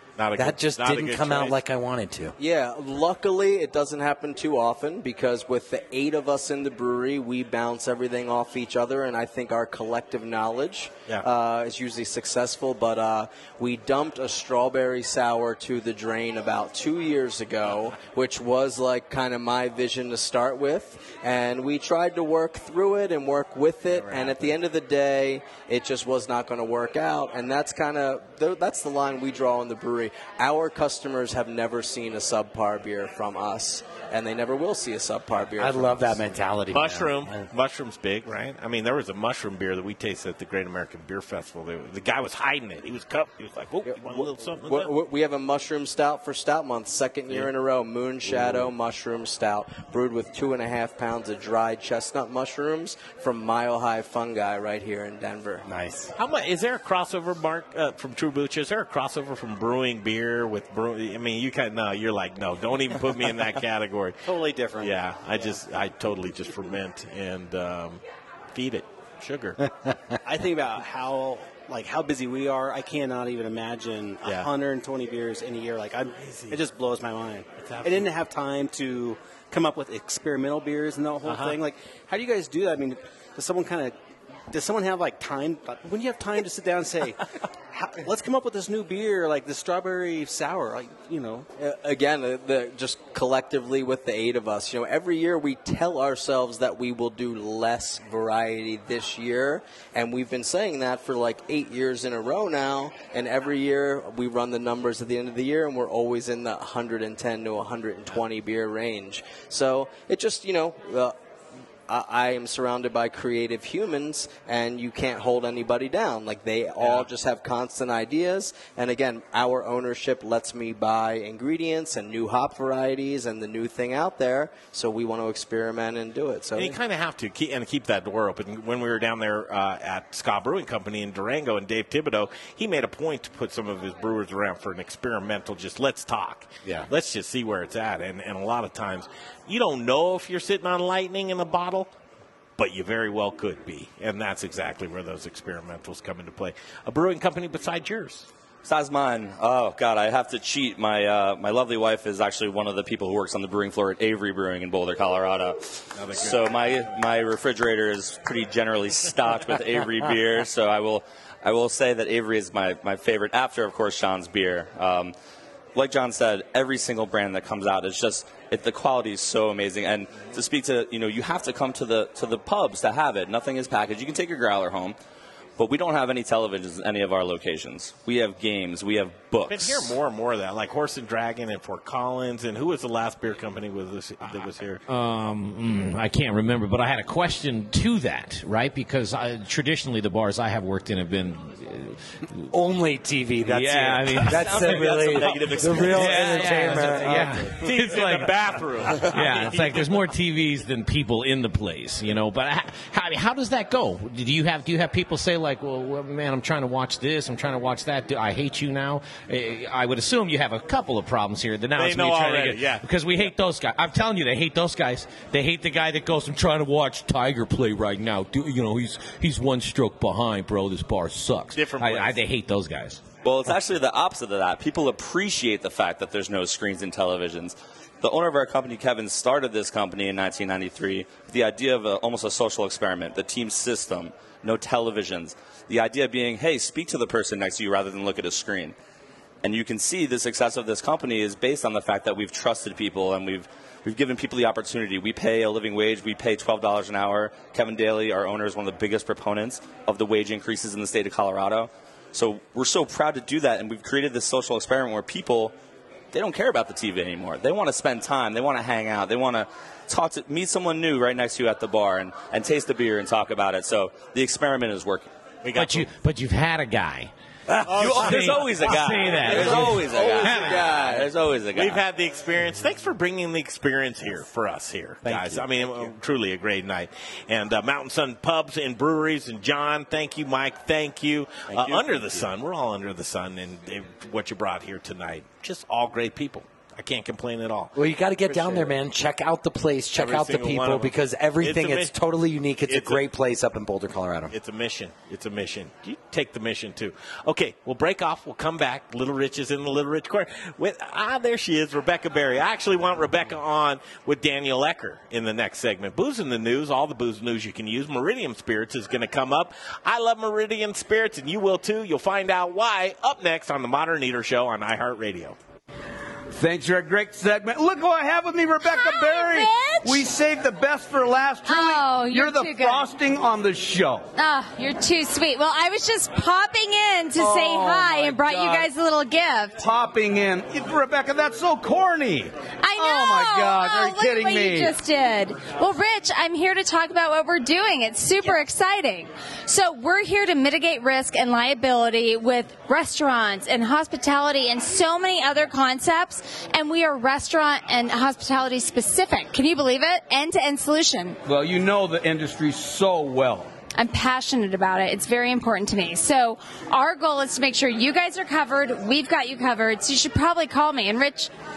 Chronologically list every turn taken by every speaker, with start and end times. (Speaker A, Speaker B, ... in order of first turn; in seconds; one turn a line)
Speaker A: 0.2-1.6
Speaker B: 0.3-2.3
Speaker C: 2.4-36.2
Speaker A: 23.9-24.5
Speaker B: 35.6-37.5
Speaker A: 36.7-44.9
Speaker C: 43.8-55.6
Speaker B: 55.6-56.1
Speaker A: 56.1-64.2
Speaker D: 64.2-65.0
Speaker A: 64.8-68.0
Speaker A: 68.5-69.6
Speaker D: 70.2-83.9
Speaker A: 74.2-74.5
Speaker A: 76.2-76.6
Speaker A: 77.6-78.1
Speaker A: 81.2-81.6
Speaker D: 84.5-91.5
Speaker C: 91.5-111.1
Speaker C: 111.9-126.8
Speaker A: 116.8-117.1
Speaker A: 126.5-141.9
Speaker A: 142.6-148.3
Speaker E: 148.6-165.1
Speaker A: 155.9-156.9
Speaker E: 165.7-175.0
Speaker E: 175.6-179.9
Speaker A: 179.5-184.8
Speaker F: 184.9-192.1
Speaker B: 192.5-197.5
Speaker F: 193.6-195.0
Speaker E: 194.4-196.4
Speaker A: 195.6-200.0
Speaker F: 195.8-198.3
Speaker F: 199.1-223.0
Speaker A: 211.8-212.8
Speaker A: 221.5-222.2
Speaker E: 223.2-238.8
Speaker E: 239.4-255.5
Speaker E: 256.1-265.1
Speaker A: 265.4-265.9
Speaker F: 265.5-267.1
Speaker A: 267.6-268.5
Speaker F: 267.8-270.6
Speaker E: 267.8-271.8
Speaker C: 269.3-271.1
Speaker A: 271.5-287.7
Speaker B: 275.1-275.4
Speaker B: 281.5-282.2
Speaker B: 287.7-294.3
Speaker A: 288.3-288.7
Speaker A: 289.9-291.9
Speaker A: 292.7-293.1
Speaker A: 294.3-315.4
Speaker G: 316.3-324.1
Speaker H: 318.6-320.1
Speaker H: 321.4-322.9
Speaker H: 324.2-329.5
Speaker G: 327.1-328.7
Speaker G: 329.6-334.7
Speaker H: 332.6-351.2
Speaker G: 351.2-353.5
Speaker H: 353.8-361.3